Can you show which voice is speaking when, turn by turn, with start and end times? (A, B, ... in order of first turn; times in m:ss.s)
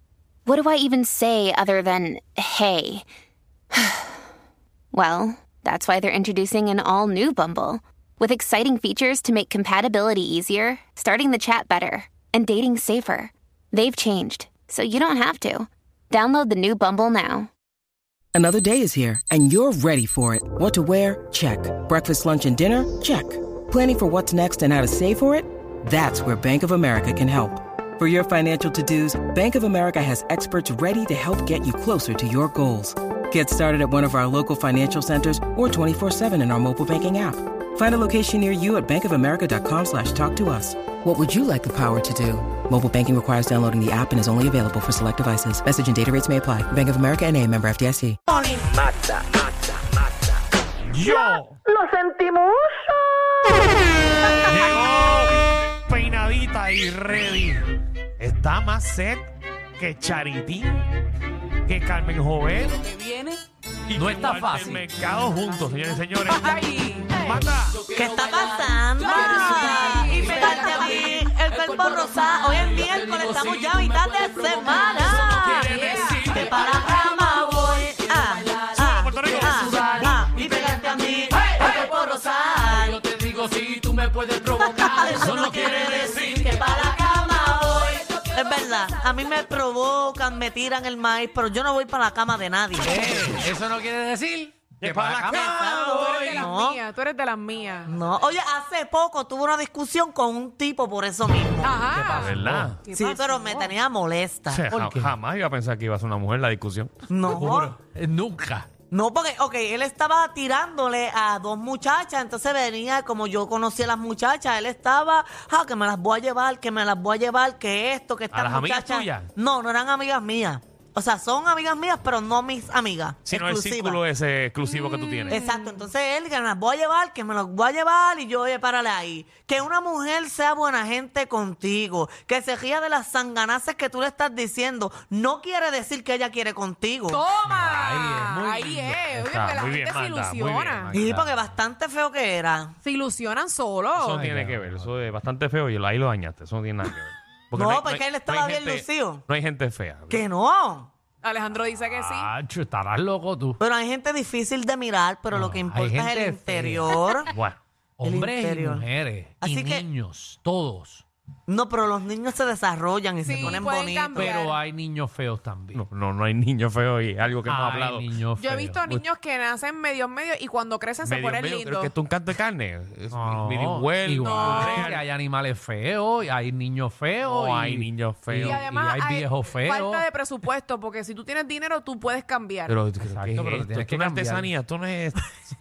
0:00.5-0:03.0 A
0:03.7-0:04.2 A
0:04.9-0:17.5 A
0:18.3-0:48.2 B
0:48.4-0:48.6 C
0:50.9-0:51.6 D
0:51.7-0:52.6 C
0:54.3-0:57.6 D
0:58.2-1:00.9 D
1:01.7-1:02.9 D
1:03.9-1:06.6 D
1:04.0-1:04.9 E
1:06.2-1:07.4 F
1:07.2-1:07.9 D
1:07.9-1:23.0 C
1:09.0-1:11.0 F
1:15.3-1:16.3 F
1:15.5-1:16.3 D
1:18.8-1:19.7 D
1:23.0-1:25.8 E
1:24.5-1:33.2 C
1:25.5-1:26.5 D
1:32.8-1:36.0 E
1:34.8-1:36.5 D
1:35.3-1:36.8 C
1:35.6-1:38.0 F
1:37.9-1:41.8 C
1:41.6-1:43.7 F
1:41.9-1:42.8 E
1:42.1-1:42.8 D
1:42.9-1:44.6 C
1:44.5-1:47.7 D
1:44.7-1:45.2 E
1:47.1-1:47.8 C
1:47.7-1:48.7 E
1:48.9-2:04.0 C
1:58.3-1:59.3 D
2:03.3-2:05.4 D
2:04.7-2:05.9 F
2:05.3-2:17.2 C
2:17.1-2:20.9 F
2:17.5-2:19.2 E
2:19.2-2:21.6 D
2:20.9-2:22.7 C
2:22.8-2:24.2 F
2:23.9-2:30.3 D
2:24.1-2:25.0 E
2:27.5-2:29.2 C
2:30.1-2:30.9 C
2:31.2-2:32.3 F
2:31.9-2:33.6 E
2:33.6-2:37.3 C
2:35.3-2:36.9 E
2:37.3-2:37.6 D
2:38.0-2:41.0 E
2:38.0-2:38.9 C
2:39.4-2:39.9 C
2:41.5-2:44.3 C
2:43.2-2:44.6 F
2:43.3-2:43.6 E
2:44.2-2:45.8 E
2:45.7-2:48.1 D
2:47.5-2:48.8 E
2:48.4-2:51.9 F
2:51.0-2:55.0 D
2:53.1-3:00.0 E
2:54.2-2:54.9 F
2:57.2-2:58.6 D
2:58.4-3:02.8 F
3:02.7-3:05.3 D
3:03.0-3:04.5 E